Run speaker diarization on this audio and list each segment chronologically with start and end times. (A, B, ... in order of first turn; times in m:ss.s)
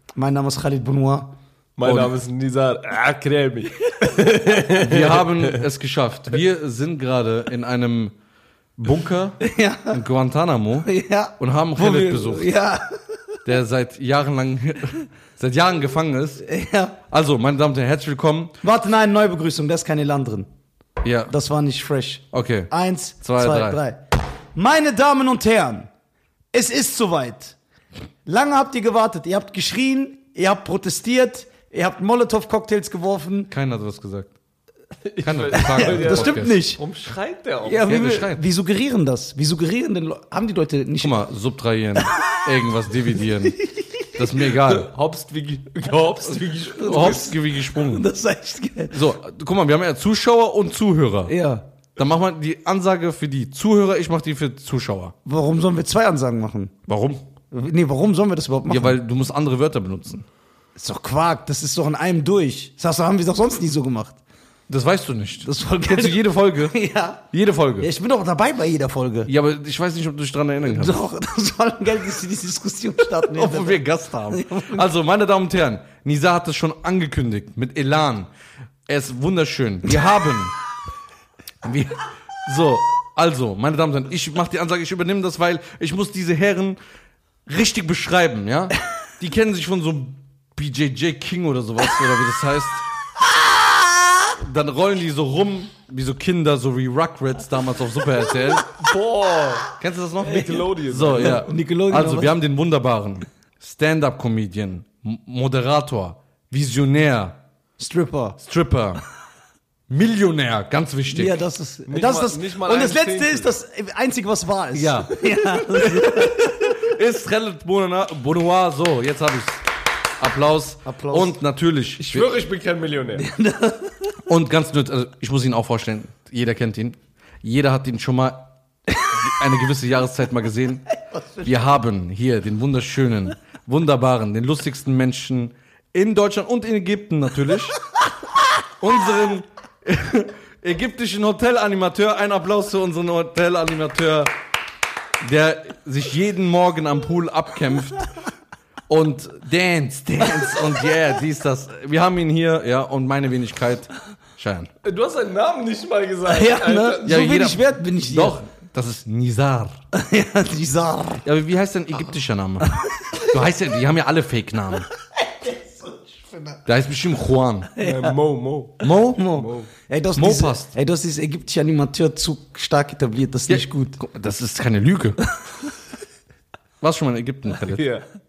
0:00.2-0:01.4 A
0:01.8-0:05.6 B
0:01.8-0:02.1 C
0:04.7-0:08.2 C
0:08.8-0:12.5 C
0:09.4-0:10.0 A
0:10.8-0:13.0 A
0:13.4-0:16.4 C
0:16.4-0:17.0 A
0:17.1-0:18.6 C
0:18.6-0:20.5 A
0:21.0-0:21.3 C
0:21.3-0:24.0 A
0:22.3-0:23.8 C
0:24.6-0:25.9 A
0:26.5-0:27.6 A
0:28.3-0:33.5 A
0:33.5-0:34.3 C
0:35.0-0:38.0 B
0:35.2-0:36.6 C
0:35.6-0:36.8 A
0:37.6-0:41.3 A
0:37.8-0:38.4 C
0:41.0-0:44.9 C
0:44.6-0:47.3 B
0:46.6-0:49.0 A
0:46.7-0:48.1 C
0:48.9-0:51.4 C
0:51.3-0:51.7 A
0:52.0-0:55.1 C
0:55.2-0:56.7 A
0:56.9-0:57.2 C
0:57.5-0:59.0 A
0:58.7-1:00.2 C
1:00.8-1:04.2 A
1:04.7-1:06.8 C
1:05.4-1:07.2 A
1:07.3-1:07.9 C
1:07.8-1:09.3 A
1:09.3-1:11.0 C
1:10.7-1:14.9 A
1:13.3-1:18.3 C
1:18.9-1:20.6 C
1:21.6-1:26.8 C
1:27.5-1:32.8 C
1:33.3-1:34.2 A
1:34.4-1:38.7 C
1:38.7-1:41.5 B
1:39.8-1:47.4 C
1:40.4-1:42.4 A
1:47.8-1:48.4 A
1:48.4-1:49.0 C
1:49.9-1:51.4 C
1:51.1-1:56.5 A
1:51.9-1:53.5 B
1:54.7-1:59.6 C
2:00.2-2:02.3 C
2:00.8-2:01.4 A
2:02.0-2:03.3 B
2:03.2-2:04.1 A
2:04.3-2:08.5 C
2:09.0-2:10.9 C
2:10.9-2:11.6 A
2:11.4-2:17.8 C
2:18.8-2:24.3 C
2:25.2-2:28.1 C
2:28.9-2:34.7 C
2:34.8-2:37.3 B
2:36.3-2:38.4 A
2:37.1-2:39.8 C
2:39.9-2:41.2 A
2:41.2-2:44.9 C
2:42.8-2:43.2 A
2:45.2-2:46.6 A
2:46.7-2:47.7 C
2:47.8-2:48.2 A
2:47.8-2:49.7 B
2:48.8-2:49.3 C
2:49.0-2:54.0 A
2:50.2-2:50.7 C
2:53.5-2:55.2 C
2:56.8-2:57.8 C
2:57.6-2:58.0 B